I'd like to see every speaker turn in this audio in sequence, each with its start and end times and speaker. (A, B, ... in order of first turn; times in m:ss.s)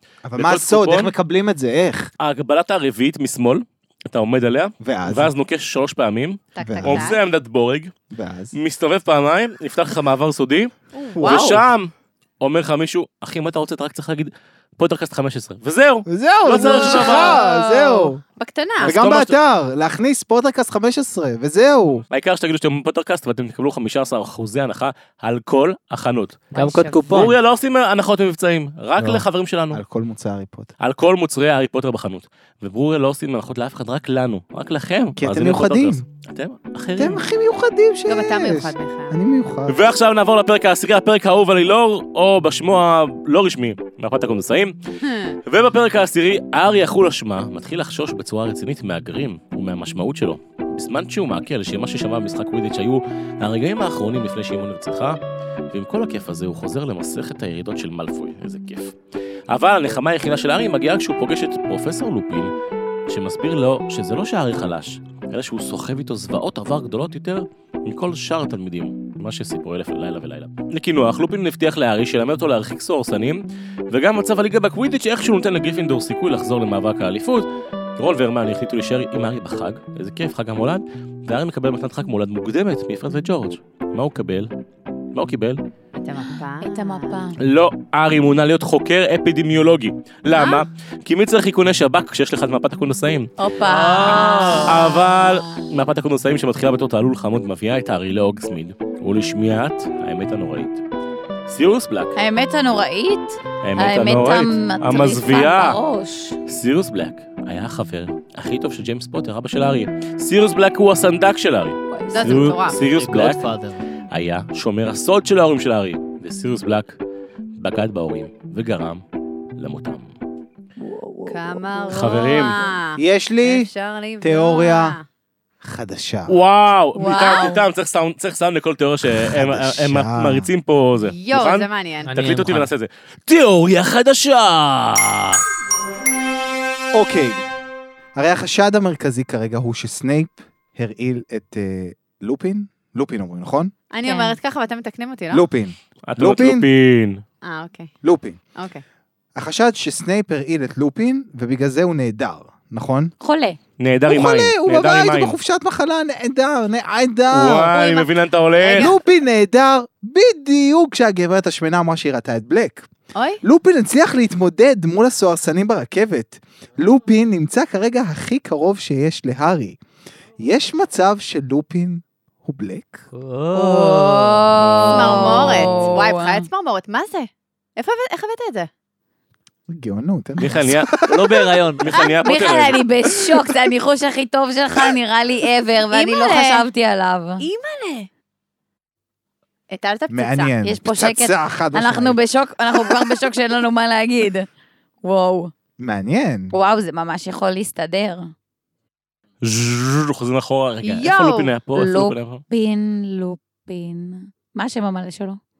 0:00.2-0:02.1 A
0:00.4-0:01.1 B
0:02.2-0:07.9 B
0:04.8-0:05.3 A
0:06.5-0:07.2 C
0:06.6-0:07.1 A
0:08.1-0:08.5 A
0:08.5-0:17.4 B
0:10.9-0:11.6 C
0:11.1-0:11.7 A
0:16.1-0:18.2 A
0:16.5-0:19.0 C
0:18.8-0:19.4 B
0:18.8-0:22.0 A
0:22.1-0:26.5 B
0:26.5-0:27.1 C
0:26.5-0:27.4 D
0:27.1-0:29.8 B
0:29.0-0:30.7 A
0:30.8-0:37.2 B
0:35.2-0:36.0 A
0:37.0-0:39.9 A
0:38.1-0:39.2 C
0:39.7-0:44.8 B
0:45.0-0:45.4 C
0:45.4-0:55.2 B
0:55.7-0:59.0 B
0:59.5-1:02.5 B
1:03.1-1:24.5 B
1:25.1-1:25.6 B
1:26.0-1:27.3 C
1:26.6-1:27.4 E
1:27.4-1:33.3 B
1:30.3-1:30.6 E
1:33.4-1:35.7 E
1:33.6-1:34.8 D
1:34.0-1:40.8 B
1:41.5-1:42.1 B
1:42.1-1:46.4 E
1:43.6-1:45.8 B
1:46.4-1:53.4 B
1:51.9-1:52.5 E
1:52.1-1:52.8 C
1:52.8-1:53.8 D
1:54.1-1:57.0 B
1:57.6-1:59.0 B
1:59.6-2:00.1 B
2:00.8-2:02.8 E
2:01.3-2:05.0 C
2:01.9-2:02.6 B
2:03.0-2:03.7 A
2:04.2-2:05.0 A
2:05.6-2:06.4 A
2:06.3-2:15.4 B
2:06.9-2:07.6 E
2:07.1-2:07.4 C
2:09.1-2:10.5 A
2:11.0-2:12.1 C
2:12.0-2:12.7 D
2:16.9-2:17.5 A
2:18.1-2:23.7 A
2:23.9-2:25.4 C
2:24.0-2:24.4 E
2:25.3-2:26.7 A
2:26.1-2:27.2 B
2:27.4-2:27.9 C
2:28.0-2:28.4 A
2:28.5-2:28.8 C
2:29.4-2:33.1 A
2:33.2-2:33.6 E
2:33.8-2:35.4 B
2:34.1-2:37.8 A
2:37.3-2:38.9 B
2:37.7-2:38.1 E
2:38.6-2:39.0 C
2:38.7-2:42.9 A
2:43.1-2:43.4 C
2:43.4-2:49.8 A
2:50.4-2:53.0 A
2:53.1-2:54.5 D
2:53.5-2:56.4 E
2:54.6-2:55.2 B
2:54.9-2:58.7 C
2:59.7-3:01.4 A
3:00.4-3:02.8 B
3:01.0-3:02.0 D
3:02.2-3:07.4 E
3:05.9-3:06.7 C
3:07.4-3:08.1 C
3:09.7-3:10.5 C
3:10.1-3:12.2 A
3:10.6-3:14.5 E
3:15.0-3:15.5 E
3:15.8-3:16.5 A
3:16.5-3:18.3 E
3:19.4-3:22.4 B
3:20.8-3:21.5 C
3:21.7-3:25.4 E